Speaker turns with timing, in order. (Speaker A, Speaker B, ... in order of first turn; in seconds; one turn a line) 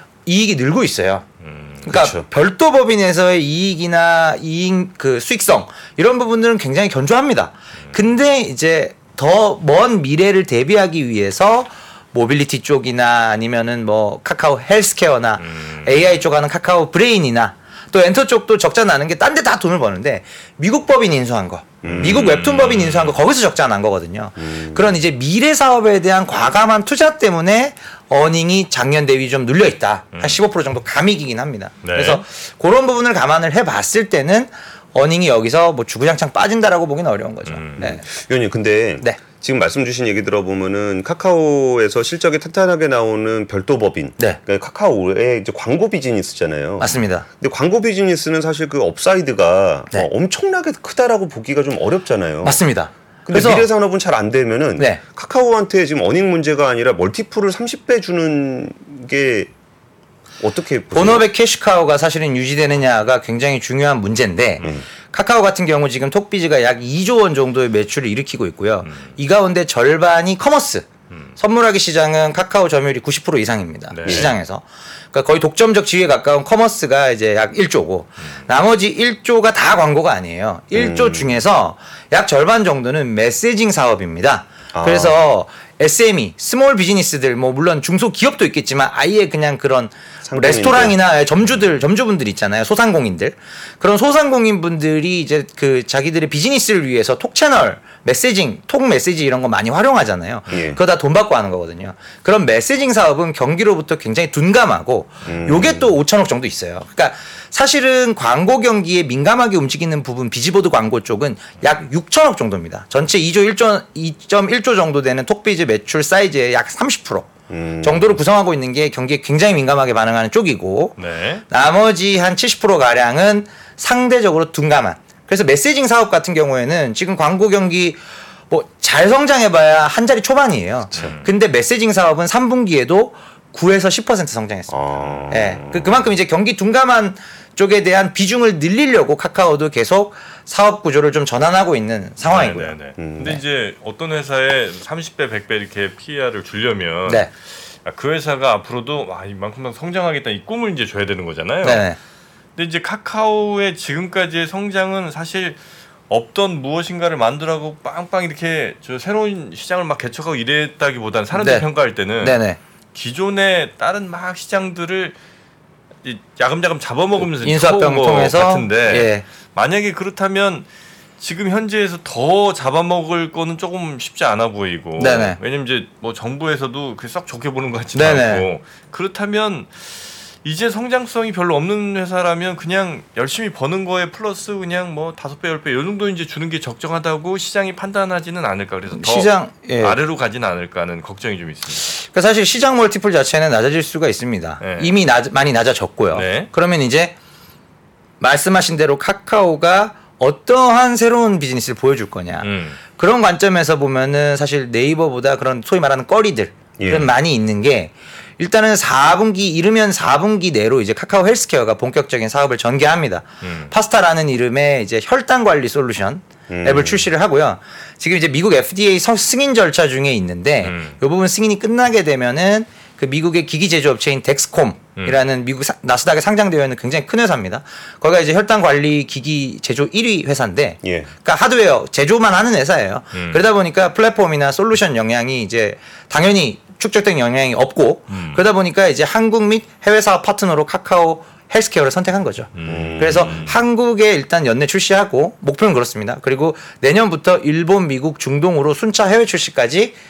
Speaker A: 0.3-1.2
Speaker B: 1.4-1.9
Speaker A: 1.9-38.0
Speaker C: 1.9-2.3
Speaker B: 15.4-16.1
Speaker C: 21.8-22.2
Speaker B: 21.9-23.2
Speaker C: 24.4-25.0
Speaker B: 31.8-32.2
Speaker B: 37.5-37.9
Speaker C: 37.8-52.6
Speaker A: 46.8-47.2
Speaker A: 52.4-53.7
Speaker C: 53.3-59.5
Speaker C: 60.4-61.3
Speaker A: 60.9-70.9
Speaker A: 71.4-134.8
Speaker B: 73.9-74.3
Speaker C: 74.0-74.3
Speaker C: 80.7-81.4
Speaker C: 84.7-85.2
Speaker C: 90.2-91.0
Speaker C: 100.5-100.8
Speaker C: 105.2-105.9
Speaker C: 117.5-118.2
Speaker B: 121.0-121.5
Speaker B: 130.9-131.3
Speaker C: 134.7-136.0
Speaker B: 135.0-135.3
Speaker A: 135.3-142.8
Speaker B: 142.2-147.3
Speaker C: 143.0-143.4
Speaker B: 147.8-151.9
Speaker A: 151.6-152.0
Speaker B: 152.6-162.4
Speaker A: 161.3-161.7
Speaker A: 162.2-162.6
Speaker B: 162.9-165.2
Speaker B: 166.0-170.7
Speaker A: 167.2-169.2
Speaker B: 171.2-191.9
Speaker A: 175.0-175.4
Speaker A: 177.9-178.5
Speaker A: 188.9-190.0
Speaker A: 191.9-197.2
Speaker B: 194.6-194.9
Speaker B: 196.1-196.5
Speaker A: 198.2-249.9
Speaker B: 202.4-202.8
Speaker C: 206.8-207.1
Speaker B: 213.4-213.7
Speaker C: 216.5-217.1
Speaker B: 220.6-220.9
Speaker C: 230.8-231.1
Speaker B: 233.1-233.4
Speaker B: 238.1-238.4
Speaker B: 242.6-243.5
Speaker C: 242.7-243.5